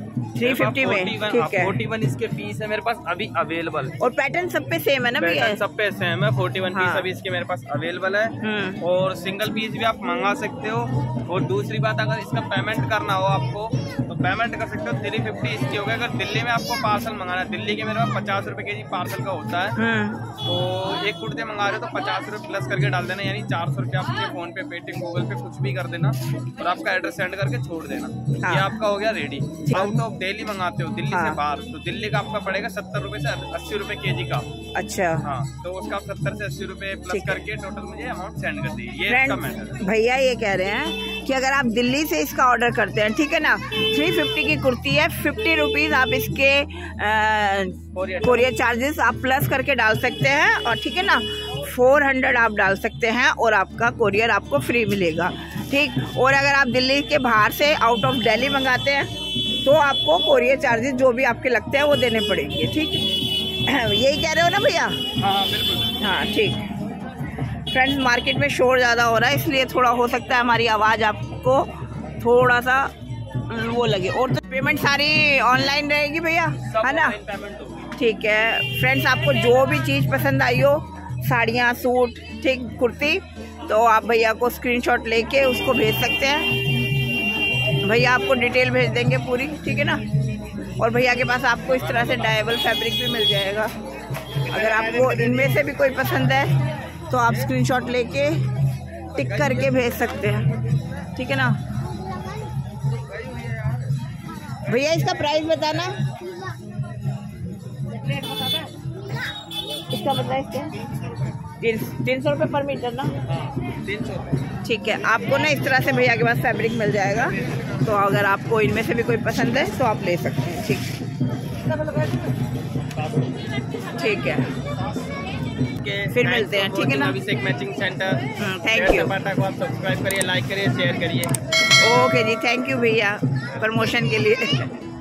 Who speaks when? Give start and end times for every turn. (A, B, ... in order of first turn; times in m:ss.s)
0:00.4-0:01.8 A
0:00.4-0:04.0 B
0:04.0-0:05.6 A
0:05.2-0:19.8 B
0:06.7-0:07.1 A
0:08.4-0:08.8 A
0:19.8-0:20.2 A
0:20.4-0:34.5 B
0:28.4-0:28.8 A
0:29.7-0:30.0 A
0:31.1-0:31.4 A
0:34.8-0:35.3 A
0:35.2-0:39.8 B
0:37.1-0:37.4 A
0:39.1-0:59.1 A
0:47.9-0:48.5 B
0:59.6-1:05.0 A
1:05.2-1:06.0 B
1:06.0-1:06.6 A
1:07.7-1:12.9 A
1:13.5-1:17.2 A
1:16.6-1:17.9 B
1:18.0-1:26.5 A
1:27.8-1:30.0 A
1:30.8-1:33.7 A
1:31.7-1:32.6 B
1:34.5-1:36.6 A
1:34.6-1:35.5 B
1:37.1-1:38.4 A
1:37.3-1:37.6 B
1:39.1-1:40.2 B
1:39.1-1:40.5 A
1:41.2-1:41.6 A
1:43.0-1:43.8 B
1:44.6-1:46.0 A
1:49.9-1:50.8 A
1:51.6-1:53.1 A
1:53.2-1:54.4 B
1:54.6-2:00.9 A
2:02.9-2:03.5 B
2:04.0-2:04.5 A
2:05.8-2:11.3 B
2:06.1-2:07.2 A
2:08.4-2:09.2 A
2:11.8-2:14.7 A